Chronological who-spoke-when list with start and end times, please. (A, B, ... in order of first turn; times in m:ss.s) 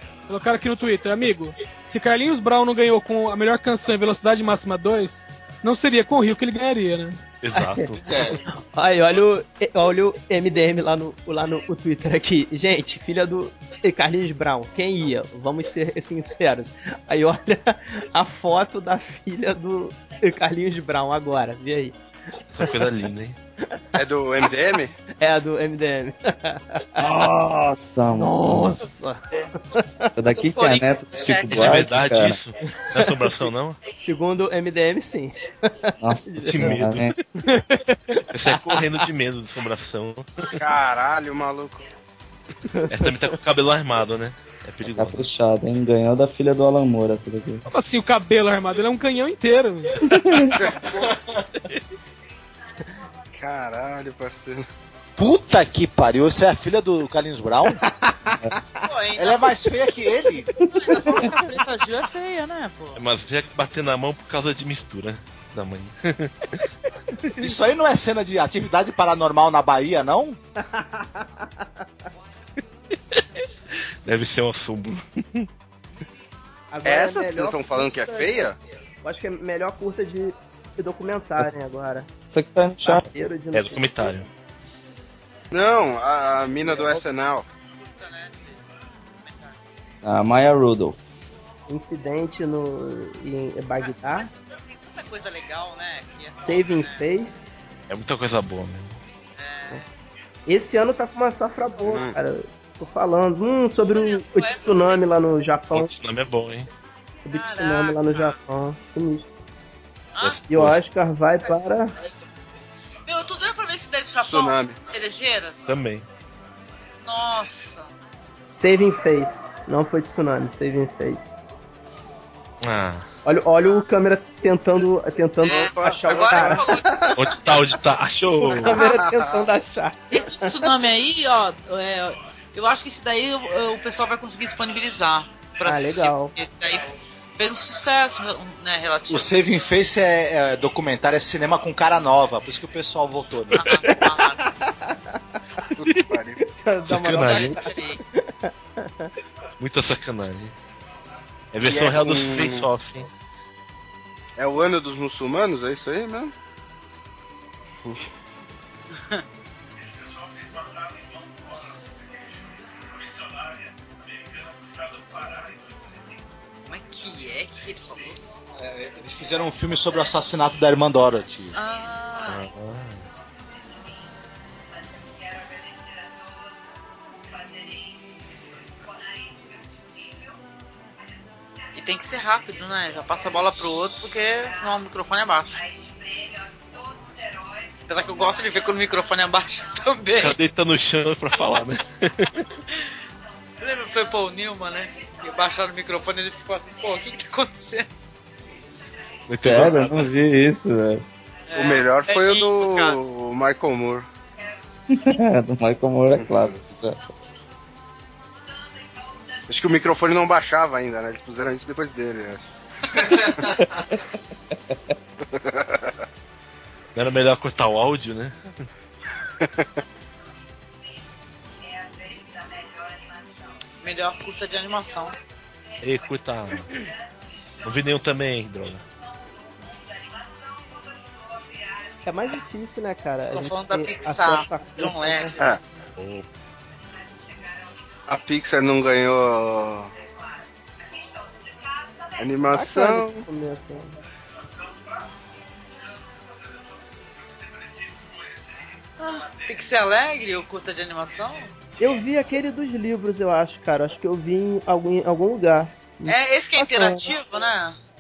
0:00.3-0:07.2 A
0:07.4-0:08.4 B
0:07.6-0:22.0 C
0:08.0-0:08.4 D
0:22.5-0:23.4 B
0:24.0-0:25.0 E
0:25.2-0:27.0 C
0:27.0-0:28.8 F
0:28.1-0:30.1 C
0:30.1-0:32.4 F
0:30.3-0:31.9 G
0:31.5-0:33.8 B
0:33.0-0:33.3 C
0:34.0-0:36.8 C
0:36.0-0:37.2 F
0:36.4-0:37.2 B
0:37.4-0:38.0 A
0:38.3-0:40.5 B
0:40.5-0:41.8 E
0:42.7-0:43.1 C
0:42.9-0:45.3 B
0:45.0-0:47.6 F
0:47.7-0:50.0 A
0:50.1-0:50.6 F
0:50.5-0:51.2 E
0:53.3-0:54.7 E
0:55.2-0:57.8 D
0:57.8-0:58.9 C
0:58.8-0:59.5 G
0:59.2-1:00.5 D
1:00.7-1:03.0 G
1:03.0-1:06.6 B
1:07.4-1:10.4 D
1:10.6-1:11.7 C
1:14.0-1:15.5 B
1:16.7-1:18.5 C
1:16.8-1:18.6 E
1:19.0-1:22.1 C
1:22.3-1:23.1 F
1:22.8-1:24.2 C
1:23.5-1:24.3 B
1:25.5-1:27.5 E
1:26.6-1:27.0 C
1:27.8-1:29.6 G
1:30.0-1:31.0 F
1:31.7-1:34.3 C
1:33.8-1:37.1 G
1:36.4-1:37.6 C
1:37.9-1:39.0 B
1:39.4-1:39.8 G
1:40.5-1:45.9 C
1:41.9-1:42.2 E
1:43.9-1:45.0 G
1:45.7-1:46.7 B
1:47.2-1:49.3 C
1:47.3-1:48.4 G
1:50.1-1:50.4 G
1:50.2-1:50.8 B
1:50.5-1:51.9 C
1:51.5-1:52.1 G
1:53.0-1:55.8 G
1:54.2-1:54.8 E
1:55.7-1:56.1 B
1:57.0-1:57.9 G
1:58.6-2:01.4 C
2:02.6-2:03.1 B
2:03.2-2:07.3 C
2:05.4-2:07.2 G
2:05.4-2:06.6 E
2:07.2-2:08.8 B
2:08.4-2:10.7 C
2:08.7-2:09.4 E
2:10.1-2:19.3 G
2:15.6-2:16.3 C
2:19.1-2:23.8 D
2:23.5-2:24.5 G
2:24.4-2:25.2 C
2:25.8-2:26.4 E
2:26.4-2:29.1 C
2:26.9-2:27.6 B
2:27.0-2:28.0 G
2:29.6-2:30.6 B
2:31.5-2:33.1 B
2:31.6-2:32.7 E
2:34.4-2:36.3 E
2:46.7-2:48.2 G
2:48.6-2:51.6 D
2:51.5-2:52.4 G
2:52.3-2:53.0 B
3:01.8-3:05.6 G
3:07.9-3:10.4 G
3:10.2-3:12.4 B
3:13.6-3:17.9 G
3:19.3-3:21.0 F
3:19.3-3:20.1 B
3:21.5-3:23.0 G
3:21.6-3:24.1 E
3:24.9-3:27.0 F
3:26.2-3:26.6 E
3:29.5-3:32.5 E
3:35.3-3:35.9 E
3:37.0-3:38.4 B
3:39.4-3:39.7 E
3:43.8-3:45.2 G
3:45.8-3:46.7 B
3:47.6-3:48.8 B
3:52.0-3:55.4 C
3:53.3-3:55.6 G
3:56.0-3:56.2 B
3:58.1-3:59.9 E
4:02.2-4:03.2 E
4:02.5-4:04.0 C
4:09.0-4:11.5 G
4:11.8-4:17.1 C
4:16.1-4:17.8 G